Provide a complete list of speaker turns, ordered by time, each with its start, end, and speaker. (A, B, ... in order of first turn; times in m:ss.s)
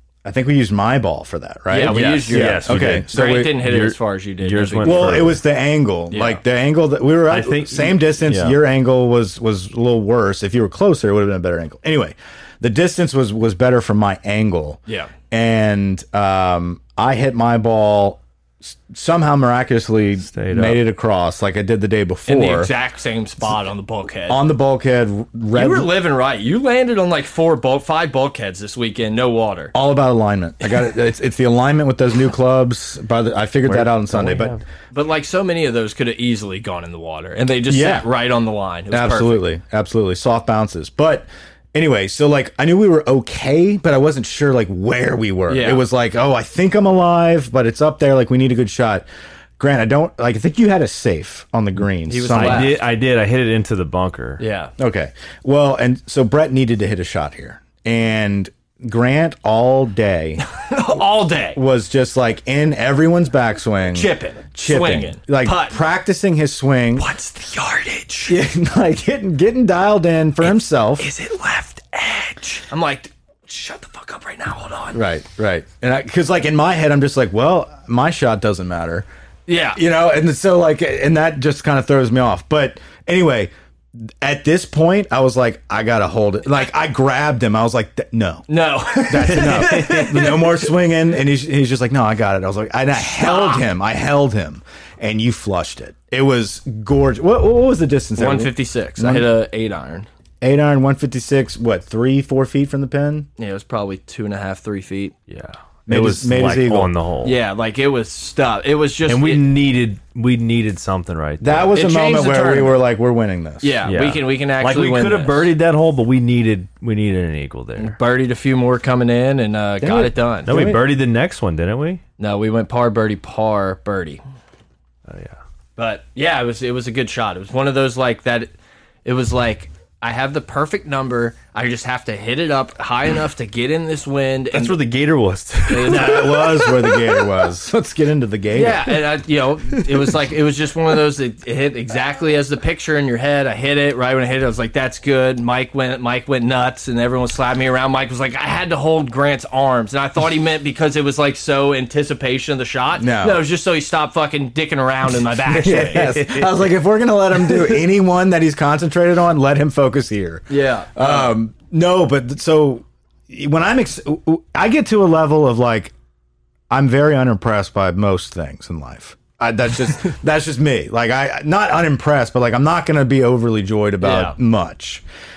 0:00.2-0:03.5 A
0:01.7-0:05.4 B
0:01.9-0:05.4 C
0:04.8-0:22.7 A
0:06.1-0:06.4 B
0:07.3-0:08.6 C
0:20.2-0:20.8 C
0:22.3-0:24.4 B
0:24.3-0:25.9 A
0:25.6-0:29.7 B
0:29.7-0:34.6 A
0:33.7-0:34.6 C
0:34.9-0:39.4 B
0:37.7-0:38.1 A
0:38.9-0:49.1 A
0:45.5-0:45.8 B
0:49.6-0:52.7 A
0:52.1-0:52.8 B
0:52.4-0:54.4 C
0:54.4-0:54.7 B
0:54.8-1:00.4 A
1:00.5-1:01.6 B
1:01.6-1:07.1 A
1:03.9-1:05.8 B
1:07.0-1:08.4 B
1:08.3-1:11.1 A
1:10.4-1:15.0 B
1:14.9-1:19.1 A
1:19.5-1:19.8 B
1:19.7-1:39.3 A
1:28.5-1:30.7 B
1:29.4-1:30.1 C
1:33.0-1:33.6 B
1:38.2-1:40.1 B
1:40.4-1:43.3 A
1:43.4-1:45.2 B
1:45.3-1:47.4 C
1:45.9-1:46.9 A
1:47.2-1:49.5 B
1:49.1-1:51.7 C
1:51.4-1:53.8 A
1:51.7-1:52.8 B
1:53.6-1:55.5 B
1:53.9-1:58.0 C
1:57.8-2:00.5 B
1:59.8-2:00.8 A
2:00.5-2:02.0 C
2:02.2-2:04.2 B
2:05.1-2:05.4 C
2:05.8-2:08.5 B
2:09.0-2:14.8 B
2:14.5-2:16.6 C
2:15.7-2:17.3 B
2:15.8-2:18.9 A
2:18.5-2:36.3 B
2:33.0-2:33.4 A
2:35.4-2:45.9 A
2:40.5-2:41.4 B
2:46.7-2:55.0 A
2:54.0-2:54.4 B